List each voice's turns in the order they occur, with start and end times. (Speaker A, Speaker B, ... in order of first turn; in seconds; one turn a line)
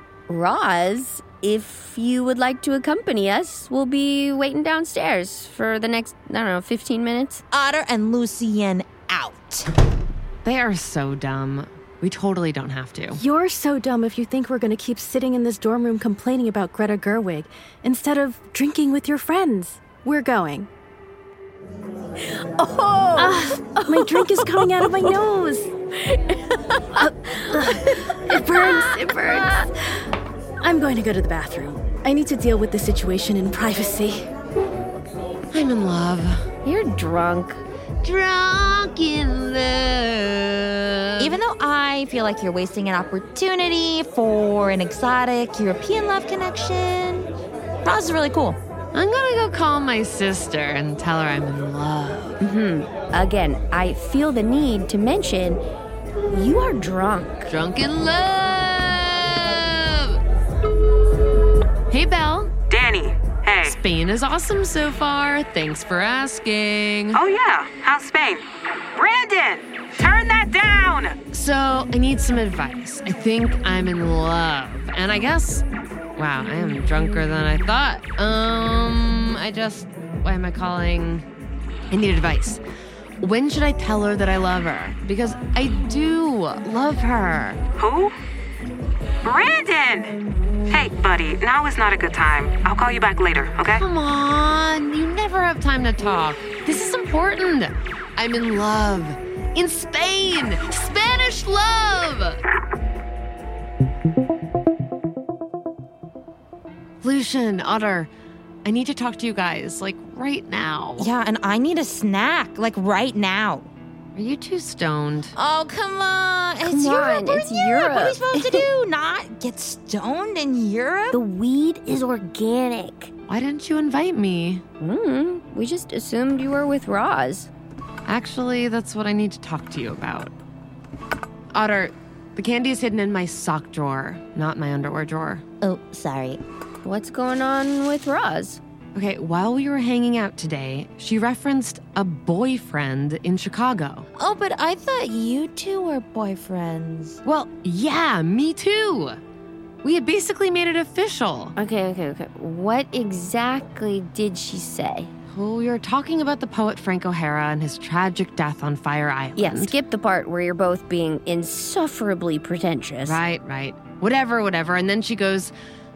Speaker A: 0.3-7.4
Speaker B: 7.5-9.7
Speaker C: 10.4-13.2
Speaker D: 13.1-20.7
Speaker A: 22.2-25.1
Speaker D: 23.1-25.7
Speaker A: 26.0-29.7
Speaker D: 26.9-30.1
Speaker D: 30.6-34.3
Speaker C: 35.5-36.5
Speaker A: 36.6-37.6
Speaker C: 38.0-41.4
Speaker B: 41.2-47.3
Speaker B: 47.8-48.6
Speaker C: 48.9-52.4
Speaker A: 52.4-55.6
Speaker A: 56.3-57.5
Speaker C: 57.5-60.2
Speaker C: 61.9-62.5
Speaker E: 62.7-63.8
Speaker C: 63.6-67.2
Speaker E: 67.1-71.2
Speaker C: 71.3-75.6
Speaker C: 76.2-81.3
Speaker C: 81.9-82.6
Speaker C: 83.2-87.6
Speaker E: 87.8-88.1
Speaker E: 89.2-90.2
Speaker E: 90.7-93.8
Speaker C: 93.7-102.4
Speaker C: 107.0-108.1
Speaker C: 108.6-111.1
Speaker B: 111.0-113.7
Speaker C: 114.1-115.3
Speaker B: 115.3-121.2
Speaker A: 116.7-118.7
Speaker A: 121.1-123.1
Speaker C: 123.3-124.6
Speaker A: 124.8-127.5
Speaker C: 128.1-130.3
Speaker C: 131.5-135.4
Speaker B: 135.6-136.4
Speaker A: 136.8-138.6
Speaker C: 138.9-144.1
Speaker B: 144.2-147.2
Speaker C: 147.2-149.2
Speaker C: 149.8-151.5
Speaker A: 151.6-155.1
Speaker C: 155.3-159.8
Speaker A: 159.3-163.2
Speaker C: 163.0-165.5